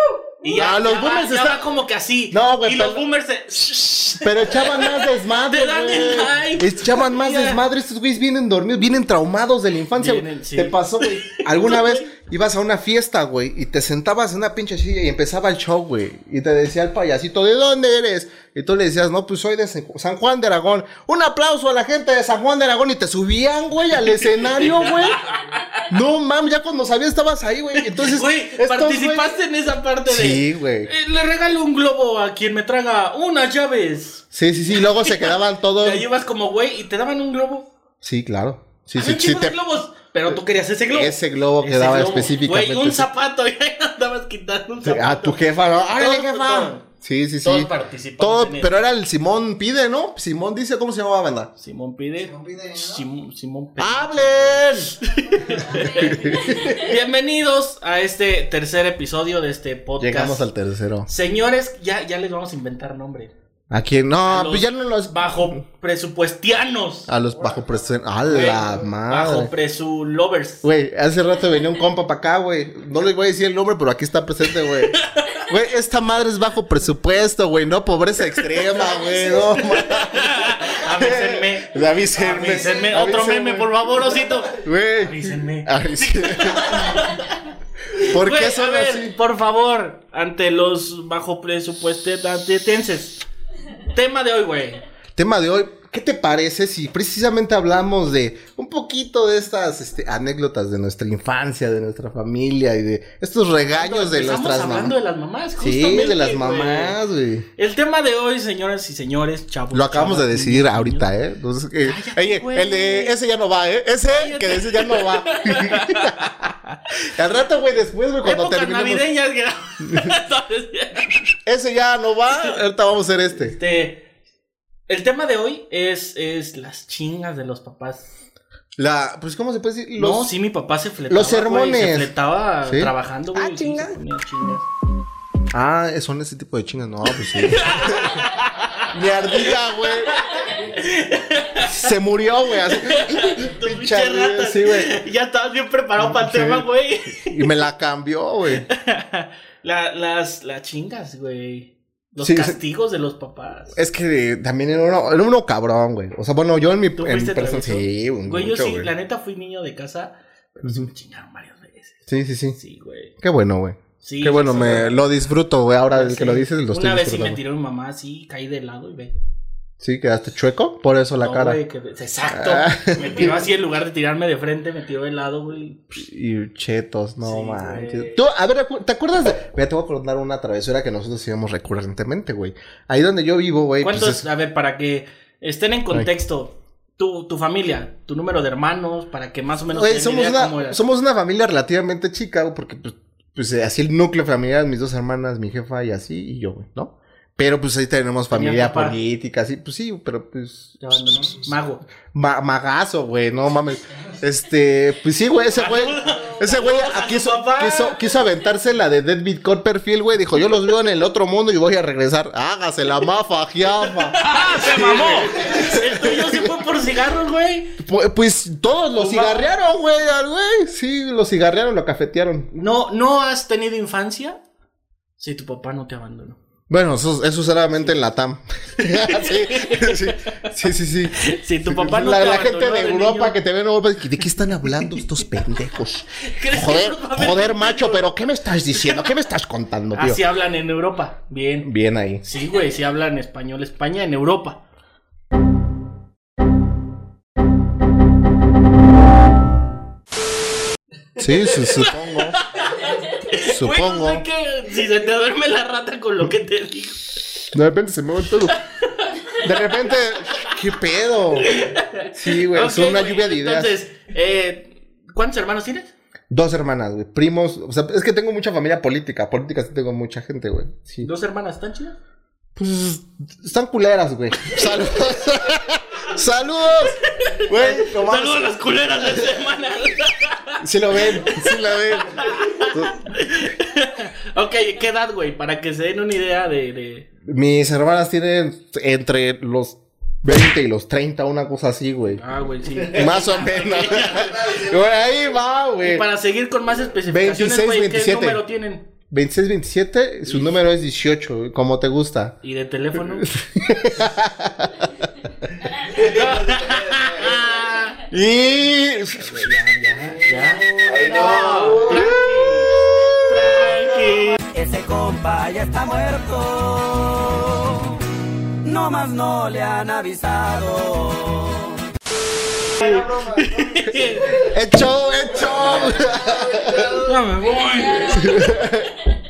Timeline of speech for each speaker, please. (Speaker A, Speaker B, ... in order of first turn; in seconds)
Speaker A: 0.4-7.6, 9.9-12.1, 24.2-25.9, 27.7-34.2, 35.0-37.7, 39.0-45.4, 45.9-46.9, 47.4-48.8, 51.6-60.4, 61.0-63.3, 64.3-67.1, 68.3-70.7, 74.7-75.5, 78.4-93.2, 93.9-94.8, 103.7-107.0, 107.6-111.1, 111.8-113.1, 114.1-116.8, 118.2-121.2, 123.4-124.0, 124.9-128.1, 130.0-134.7, 137.2-141.9, 142.7-147.4, 148.7-153.8, 157.0-163.1, 164.0-165.0, 165.9-169.1, 171.2-176.0, 177.2-178.2, 183.8-190.8, 198.3-199.0, 200.8-201.8, 205.5-208.0, 213.9-217.8, 218.9-219.5, 222.5-224.4, 225.2-226.4, 228.8-230.5, 231.2-233.4, 236.1-238.1, 239.9-241.7, 242.2-244.6, 251.7-257.4, 258.6-260.5, 261.4-265.9, 271.0-272.0, 277.1-287.1, 292.1-294.6, 295.8-298.9, 300.2-300.6, 302.4-303.3, 305.8-308.0, 309.1-312.7, 313.2-314.4, 322.8-324.5, 325.6-326.0, 326.8-328.5
Speaker B: 0.5-1.6, 2.3-3.0, 4.2-25.2, 25.9-29.3, 30.1-30.9, 34.3-36.0, 38.0-39.6, 40.9-43.1, 44.8-51.5, 52.3-53.0, 53.8-56.9, 60.0-61.1, 63.7-65.6, 67.1-69.5, 70.6-83.8, 84.5-87.1, 88.0-89.2, 95.2-105.0, 105.6-107.5, 109.7-116.5, 117.0-119.0, 119.9-120.1, 121.5-123.6, 128.8-130.3, 131.1-132.1, 132.6-132.9, 135.5-138.3, 138.9-140.2, 141.6-145.0, 146.0-148.7, 152.2-152.6, 153.7-158.9, 162.1-162.6, 163.2-167.4, 169.8-171.6, 172.3-173.4, 175.9-184.2, 189.7-200.8, 202.1-216.6, 217.8-222.5, 226.7-240.2, 241.6-242.2, 251.2-252.4, 253.3-254.2, 257.5-258.6, 259.4-261.6, 262.1-263.7, 266.3-271.1, 272.6-278.5, 280.6-283.0, 287.2-292.2, 292.8-296.1, 297.1-298.4, 299.1-302.4, 302.9-304.9, 305.8-307.4, 308.0-309.5, 310.8-313.7, 322.7-327.1, 328.1-328.9
Speaker C: 133.4-133.9, 314.5-318.0, 318.6-321.8